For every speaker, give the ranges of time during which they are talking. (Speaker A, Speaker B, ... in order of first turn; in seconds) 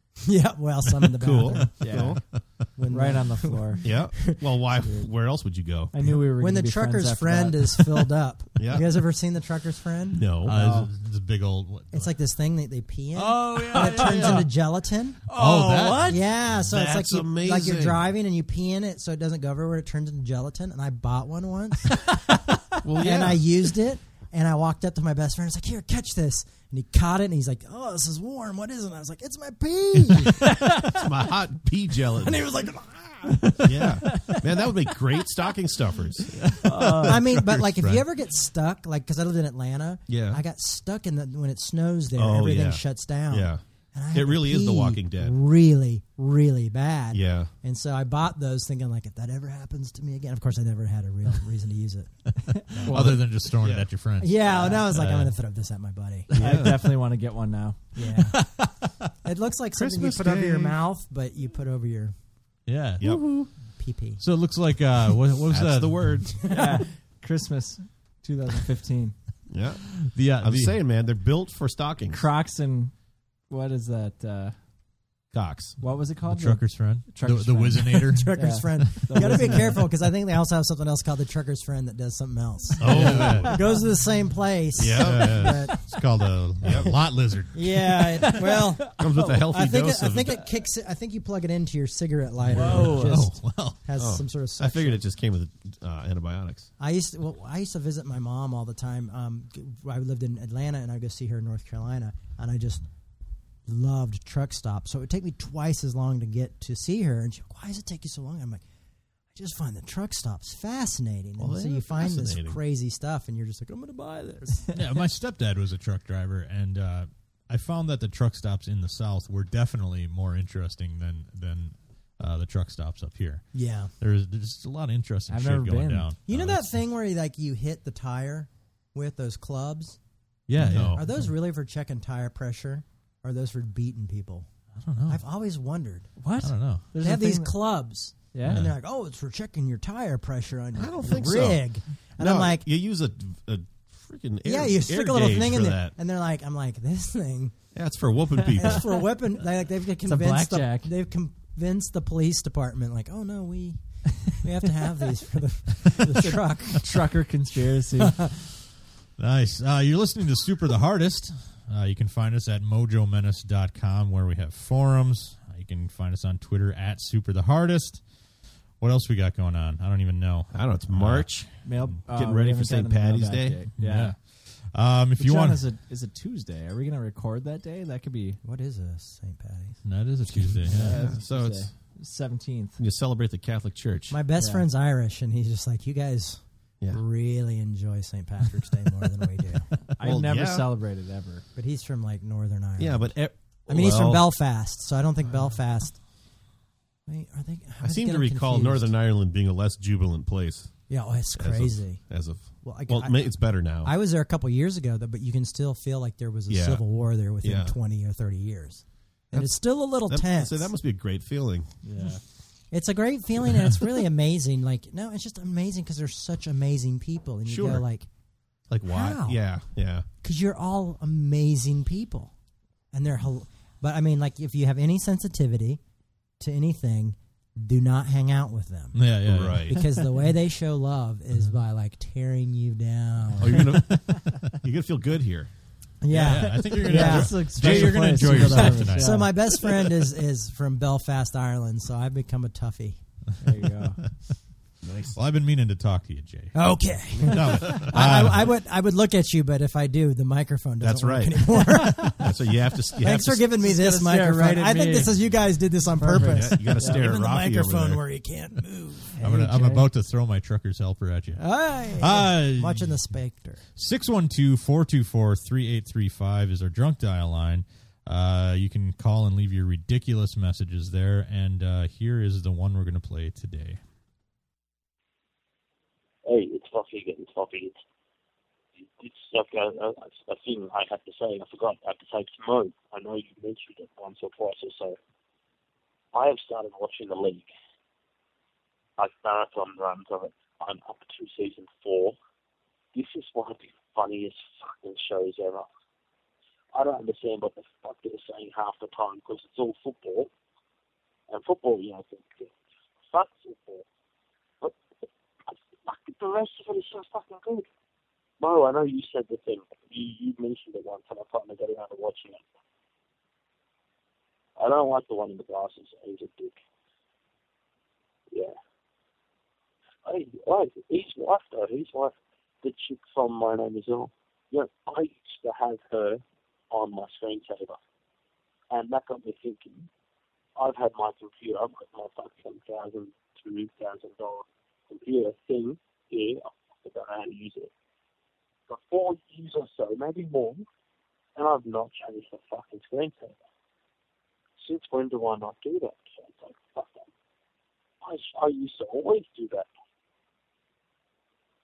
Speaker A: 0.2-2.1, 2.8-4.4, 6.3-10.3, 11.9-15.2, 16.1-22.2, 22.9-30.9, 32.1-33.9, 37.0-52.4, 54.2-56.3, 58.0-58.7, 59.2-62.1, 63.8-64.2, 66.3-66.7, 78.1-86.0, 87.5-95.0, 96.8-102.8, 103.7-108.6, 109.3-114.7, 123.5-123.9, 126.3-130.0, 130.6-134.5, 135.1-136.1, 137.0-142.7, 144.4-147.5, 148.5-156.9, 158.0-158.3, 178.4-179.8, 184.1-189.7, 191.6-193.1, 193.7-196.0, 197.1-198.9, 200.9-202.0, 202.6-210.7, 212.7-218.1, 218.9-219.4, 220.2-222.3, 222.9-225.8, 226.4-229.1, 229.7-233.8, 236.0-243.0, 246.5-259.8, 261.4-263.6
Speaker B: 1.1-2.6, 3.8-5.9, 8.6-8.9, 10.1-10.6, 16.5-18.1, 22.8-23.5, 30.7-32.5, 33.6-36.5, 40.1-40.4, 42.1-45.3, 47.1-47.5, 52.9-53.9, 54.5-54.7, 56.3-56.9, 59.8-60.8, 65.5-66.3, 69.5-72.2, 75.3-75.8, 82.8-83.5, 84.7-85.7, 86.6-87.0, 89.0-90.4, 94.0-96.7, 111.4-112.6, 130.6-131.1, 140.7-145.9, 147.7-148.9, 170.5-171.6, 172.1-173.6, 180.8-181.7, 182.8-184.2, 190.0-190.7, 192.8-194.3, 197.8-200.7, 201.3-203.9, 206.5-206.8, 207.4-207.8, 209.3-211.7, 217.4-217.8, 218.7-220.1, 229.2-229.8, 233.4-235.5, 236.1-236.8, 237.6-238.8, 244.8-245.2, 247.2-247.9, 250.8-253.5, 256.2-258.0
Speaker C: 1.8-2.2, 2.9-3.8, 5.9-7.9, 10.5-10.9, 13.7-14.4, 15.3-16.2, 34.0-34.4, 36.6-37.2, 52.7-53.1, 56.3-58.0, 66.5-69.2, 72.1-72.9, 73.5-74.5, 75.8-79.8, 88.1-89.0, 92.5-93.2, 125.3-126.1, 136.2-137.6, 138.3-138.6, 148.4-148.7, 150.0-150.9, 156.1-158.2, 171.6-174.1, 175.2-178.4, 180.7-182.8, 184.4-184.6, 189.9-191.4, 211.8-212.2, 236.7-239.3, 243.4-244.0, 253.6-255.2, 255.8-257.1, 259.4-259.7
Speaker D: 10.4-12.1, 13.1-14.5, 15.3-16.3, 36.4-38.0, 52.7-55.3, 62.7-63.5, 64.2-66.2, 70.0-70.8, 76.2-79.6, 82.8-83.6, 85.0-88.0, 92.4-93.8, 114.7-126.7, 130.5-131.2, 134.8-135.2, 136.4-136.8, 138.4-138.7, 159.2-168.0, 168.8-171.4, 173.8-175.6, 179.8-181.0, 228.9-229.9, 236.1-239.8, 245.1-246.5, 247.2-248.6, 259.2-263.0, 263.8-273.8
Speaker E: 276.2-277.8, 278.8-285.0, 286.1-287.5, 289.0-292.2, 292.9-295.7, 296.7-300.3, 301.3-302.5, 303.1-303.8, 305.5-307.7, 308.4-312.4, 314.6-316.6, 320.0-327.8, 328.7-329.9, 330.6-337.7, 338.7-340.6, 341.4-343.4, 344.6-347.1, 348.0-349.7